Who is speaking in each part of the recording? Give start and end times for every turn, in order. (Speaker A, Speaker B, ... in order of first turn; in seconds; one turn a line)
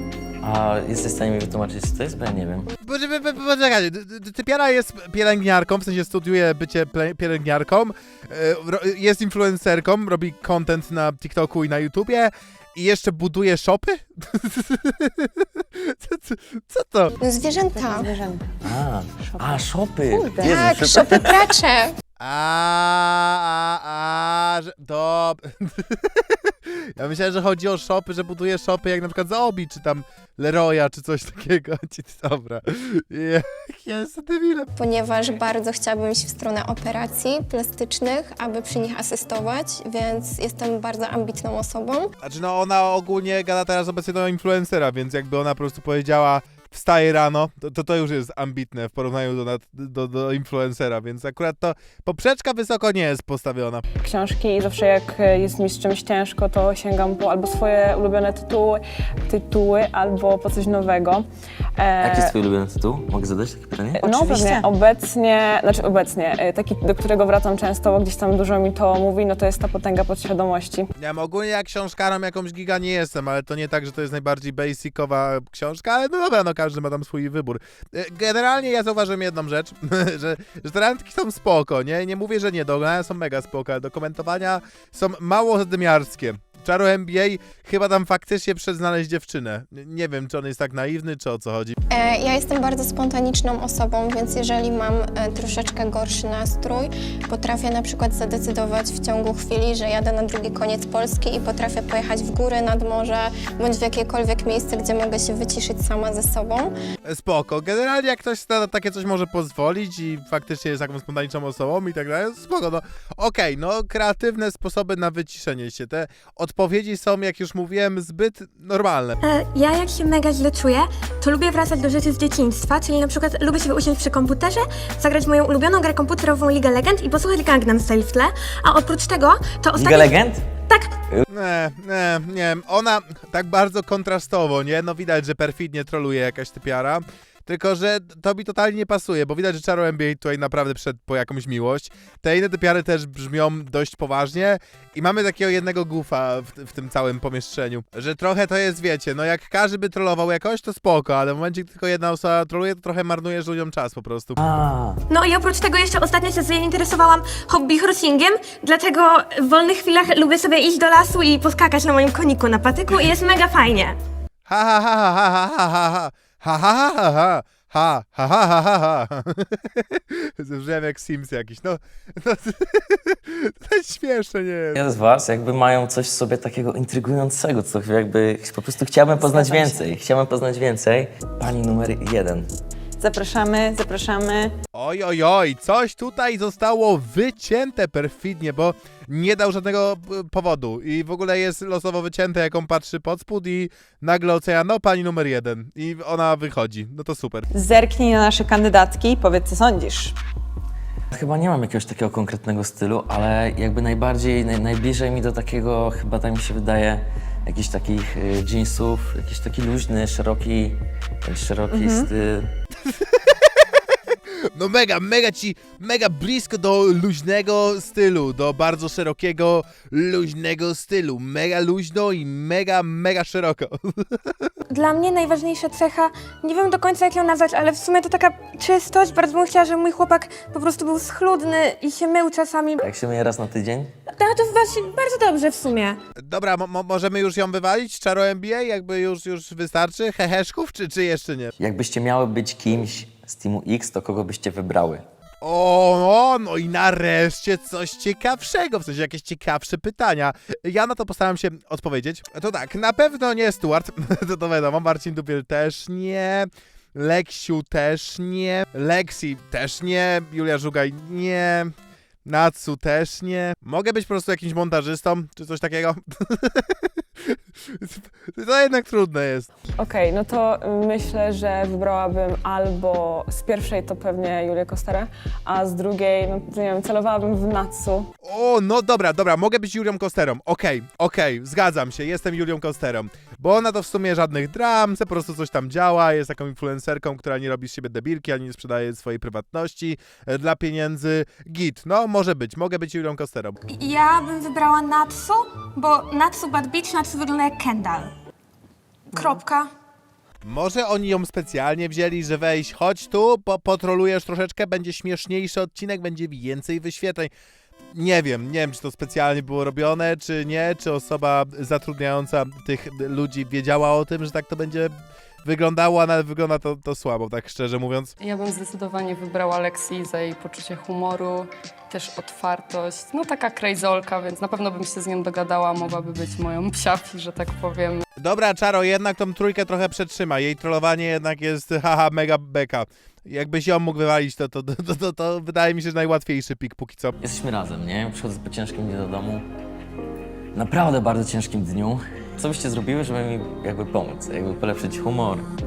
Speaker A: 0.4-2.7
Speaker B: 2.8-17.2
Speaker C: 17.2-18.1
Speaker D: 17.7-18.5
Speaker A: 18.6-21.4
Speaker D: 19.2-19.6
Speaker D: 20.1-20.6
Speaker C: 20.4-22.0
Speaker B: 22.2-34.7
Speaker C: 34.8-42.1
Speaker B: 42.2-53.8
Speaker E: 54.0-61.3
Speaker E: 61.8-62.3
Speaker A: 62.0-64.2
Speaker D: 64.0-64.7
Speaker E: 64.0-70.9
Speaker B: 71.0-91.8
Speaker C: 91.9-106.7
Speaker B: 107.1-119.2
Speaker F: 119.2-130.2
Speaker A: 129.8-130.5
Speaker B: 131.3-154.4
Speaker A: 154.4-155.0
Speaker F: 155.1-164.0
Speaker B: 164.5-174.8
Speaker A: 174.7-182.5
Speaker D: 179.2-179.9
Speaker D: 183.0-184.5
Speaker B: 184.7-197.5
Speaker D: 197.5-200.2
Speaker A: 201.1-212.5
Speaker D: 211.8-212.1
Speaker B: 212.9-213.3
Speaker B: 214.6-224.5
Speaker F: 224.7-232.9
Speaker A: 232.8-233.9
Speaker F: 234.1-236.0
Speaker B: 236.2-241.5
Speaker A: 241.6-245.1
Speaker B: 245.4-261.7
Speaker B: 262.3-269.5
Speaker E: 269.8-277.8
Speaker D: 277.1-278.1
Speaker B: 278.2-293.6
Speaker F: 293.7-298.1
Speaker F: 299.1-299.7
Speaker B: 300.4-307.3
Speaker B: 307.9-314.9
Speaker B: 315.4-318.1
Speaker G: 318.2-328.0
Speaker B: 328.2-337.1
Speaker A: 337.2-339.5
Speaker A: 340.5-345.5